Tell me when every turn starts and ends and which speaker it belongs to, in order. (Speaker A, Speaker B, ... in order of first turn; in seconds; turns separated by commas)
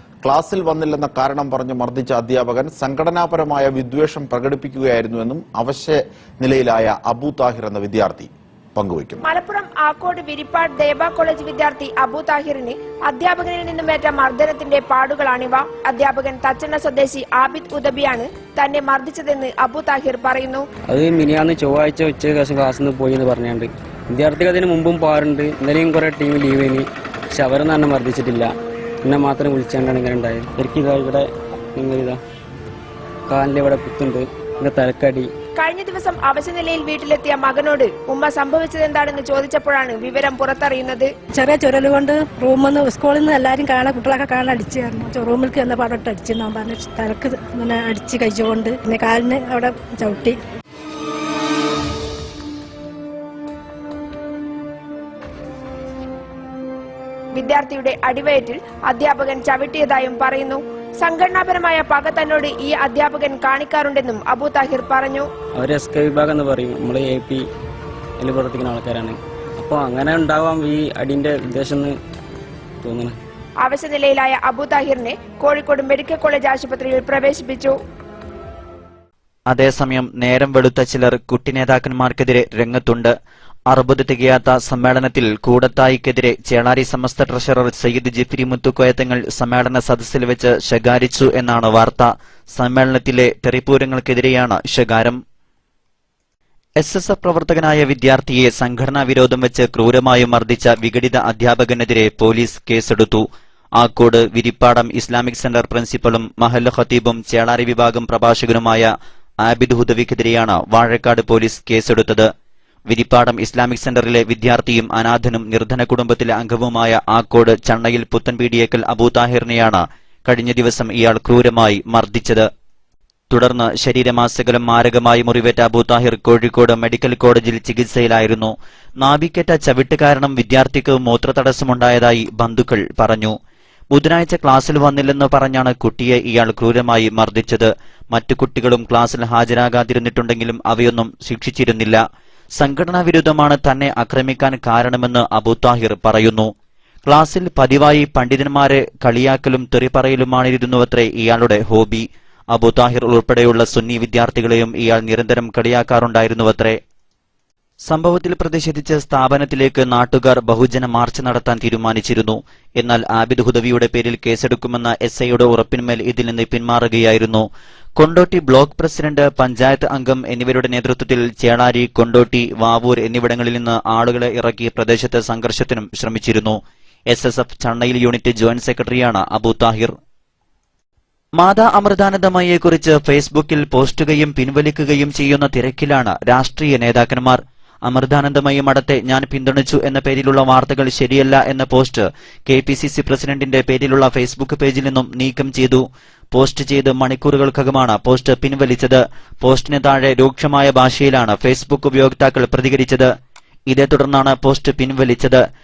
Speaker A: 0.2-9.2, Speaker B: 9.2-20.6, Speaker C: 20.9-28.5, Speaker C: 29.0-32.2, Speaker C: 33.3-35.3, Speaker B: 35.6-41.1, Speaker D: 41.3-50.4, Speaker B: 57.3-65.3, Speaker C: 65.5-67.4, Speaker C: 68.2-72.0, Speaker C: 72.8-73.2, Speaker B: 73.6-77.7, Speaker E: 79.5-83.1, Speaker E: 83.7-95.2, Speaker E: 96.8-103.2, Speaker E: 103.8-108.9, Speaker E: 109.4-112.3, Speaker E: 112.9-122.5, Speaker E: 123.3-133.3, Speaker E: 133.9-142.0, Speaker E: 142.6-146.5, Speaker E: 147.1-156.8, Speaker E: 157.9-167.4, Speaker E: 168.0-176.6, Speaker E: 177.1-179.9, Speaker E: 181.4-203.1, Speaker E: 203.7-205.4